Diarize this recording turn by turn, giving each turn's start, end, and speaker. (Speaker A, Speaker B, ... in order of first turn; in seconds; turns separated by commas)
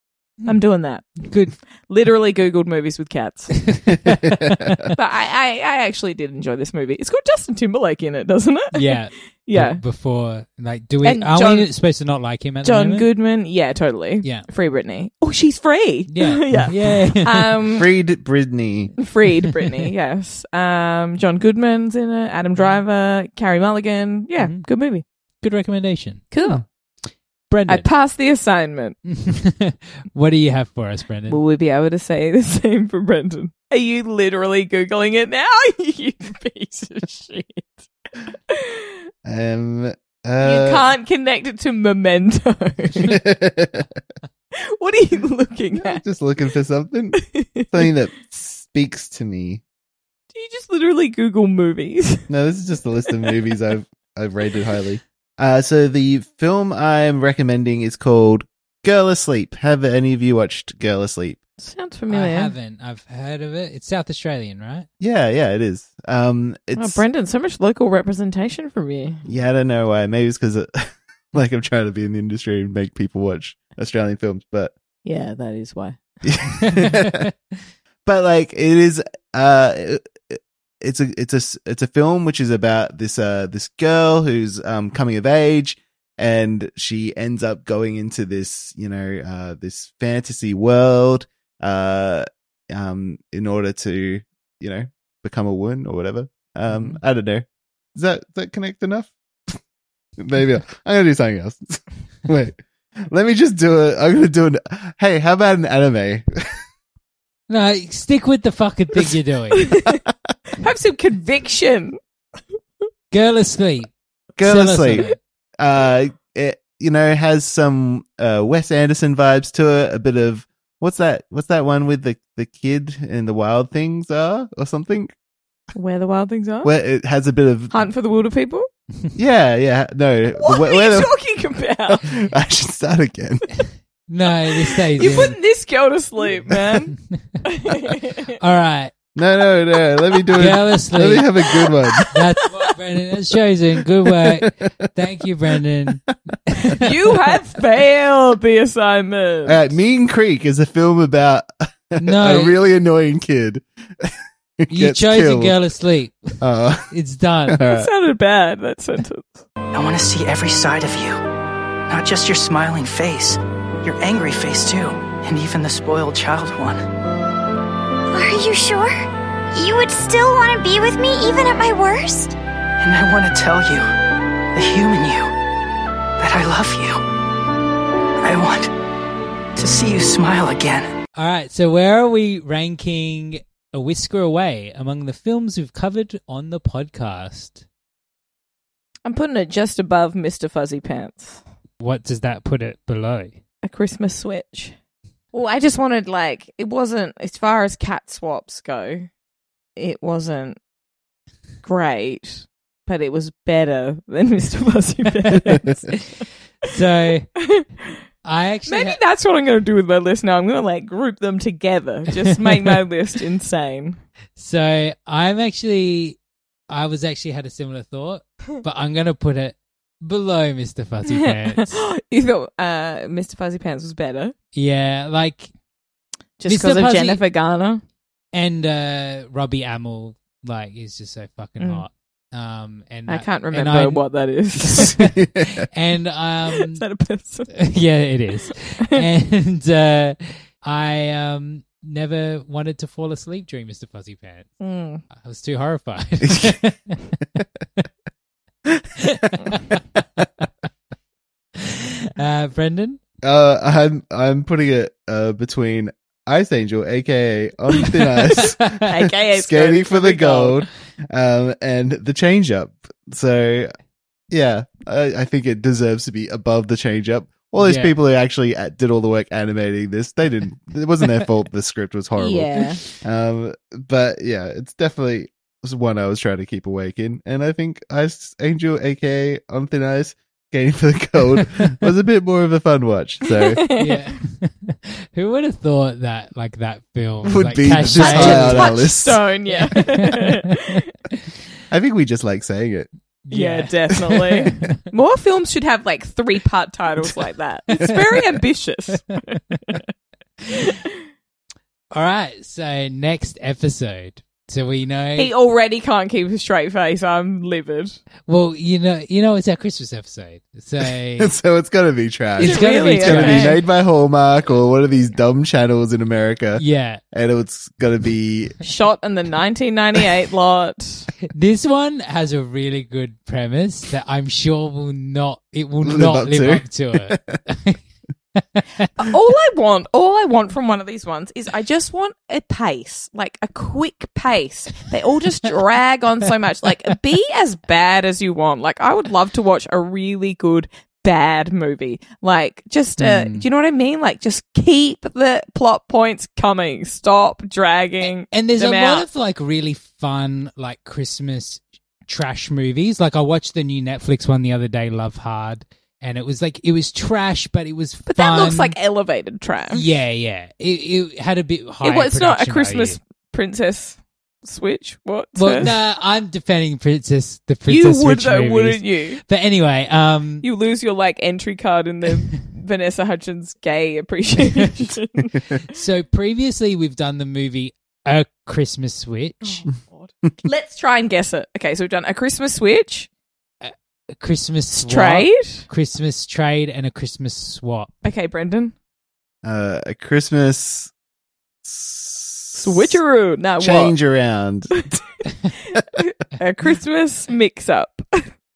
Speaker A: 0.5-1.2, Speaker B: 1.2-1.5, Speaker A: 1.8-3.5, Speaker B: 3.6-4.9, Speaker C: 4.0-4.8, Speaker A: 4.9-9.8, Speaker B: 8.7-13.1, Speaker A: 11.0-11.7, Speaker A: 12.6-17.9, Speaker B: 14.2-14.5, Speaker B: 16.1-17.5, Speaker C: 17.7-18.9, Speaker A: 19.0-25.0, Speaker B: 24.4-24.7, Speaker B: 25.4-26.3, Speaker A: 26.3-26.6, Speaker B: 27.5-27.9, Speaker A: 27.7-29.0, Speaker B: 29.1-31.4, Speaker A: 31.3-37.9, Speaker A: 38.5-39.0, Speaker C: 39.2-40.9, Speaker A: 40.4-43.2, Speaker C: 43.0-44.0, Speaker A: 44.6-46.0, Speaker C: 45.7-49.6, Speaker A: 47.2-47.8, Speaker A: 50.3-52.3, Speaker C: 52.3-61.4, Speaker A: 61.6-62.5, Speaker B: 62.1-64.9, Speaker C: 65.0-67.0, Speaker A: 66.8-69.2, Speaker C: 69.2-74.7, Speaker A: 75.0-76.0, Speaker C: 76.2-77.3, Speaker B: 76.7-77.3, Speaker C: 78.0-99.6, Speaker C: 100.2-106.2, Speaker B: 107.5-109.7, Speaker A: 109.6-110.0, Speaker A: 110.6-112.0, Speaker B: 113.1-113.9, Speaker C: 114.4-115.1, Speaker B: 114.4-115.2, Speaker C: 115.6-125.1, Speaker A: 125.7-126.7, Speaker C: 126.6-127.7, Speaker A: 127.7-128.7, Speaker C: 129.1-131.1, Speaker A: 130.4-132.1, Speaker C: 131.9-133.4, Speaker B: 134.1-135.4, Speaker A: 134.9-136.9, Speaker B: 136.9-137.4, Speaker A: 137.4-138.3, Speaker B: 138.4-138.9, Speaker C: 139.1-142.1, Speaker B: 140.3-141.3, Speaker A: 141.5-142.1, Speaker B: 142.1-146.8, Speaker A: 146.7-149.6, Speaker C: 149.4-155.5, Speaker B: 152.0-152.6, Speaker B: 154.7-156.4, Speaker C: 156.4-156.9, Speaker B: 156.9-157.6, Speaker C: 157.5-157.9, Speaker A: 157.6-159.4, Speaker D: 159.7-161.2, Speaker D: 161.9-166.8, Speaker E: 168.1-172.3, Speaker D: 172.8-173.9, Speaker D: 174.5-175.3, Speaker D: 176.2-177.0, Speaker D: 178.2-178.7, Speaker D: 179.6-180.9, Speaker B: 181.2-187.6, Speaker A: 189.0-191.4, Speaker B: 191.8-193.4, Speaker A: 193.6-194.7, Speaker A: 195.3-199.1, Speaker A: 199.8-200.6, Speaker A: 201.6-205.9, Speaker B: 205.3-206.1, Speaker B: 206.6-207.3, Speaker B: 208.2-209.0, Speaker A: 208.7-214.0, Speaker B: 212.4-212.8, Speaker B: 214.4-216.2, Speaker B: 216.7-221.8, Speaker A: 221.1-224.3, Speaker B: 224.5-225.5, Speaker A: 226.4-227.8, Speaker B: 226.5-227.2, Speaker B: 228.3-234.0, Speaker A: 231.6-231.8, Speaker A: 233.1-235.0, Speaker B: 234.8-236.8, Speaker C: 234.8-235.6, Speaker A: 236.5-237.5, Speaker B: 237.5-244.5, Speaker A: 244.6-245.0, Speaker B: 245.1-247.0, Speaker B: 249.0-249.8, Speaker B: 251.6-253.0, Speaker C: 253.2-263.7, Speaker A: 258.3-260.6, Speaker B: 258.6-258.9, Speaker C: 264.3-283.6, Speaker B: 267.6-267.9, Speaker A: 272.2-272.8, Speaker B: 281.4-281.7, Speaker A: 283.2-284.1, Speaker B: 283.8-288.8, Speaker C: 287.2-289.2, Speaker A: 288.0-290.8, Speaker B: 289.6-290.6, Speaker C: 291.7-292.9, Speaker B: 293.2-294.8, Speaker A: 293.3-299.8, Speaker A: 300.5-300.9, Speaker B: 301.9-305.3, Speaker A: 305.1-308.0, Speaker B: 308.3-311.3, Speaker C: 311.2-318.6, Speaker B: 312.4-313.6, Speaker A: 312.4-313.6, Speaker B: 316.6-317.0, Speaker A: 318.6-321.1, Speaker B: 321.3-327.8, Speaker C: 325.8-327.4, Speaker B: 328.4-328.9, Speaker A: 329.0-349.1, Speaker B: 343.0-343.5, Speaker B: 348.3-358.8, Speaker A: 358.1-359.9, Speaker B: 359.7-363.0, Speaker A: 361.8-365.7, Speaker B: 365.4-370.4, Speaker A: 367.7-369.2, Speaker A: 370.4-375.3, Speaker B: 375.7-379.6, Speaker A: 379.4-383.1, Speaker B: 383.6-387.9, Speaker A: 384.7-385.6, Speaker A: 388.0-388.7, Speaker C: 389.4-390.9, Speaker C: 391.6-393.0, Speaker A: 392.6-393.9, Speaker C: 393.6-394.9, Speaker A: 395.9-398.2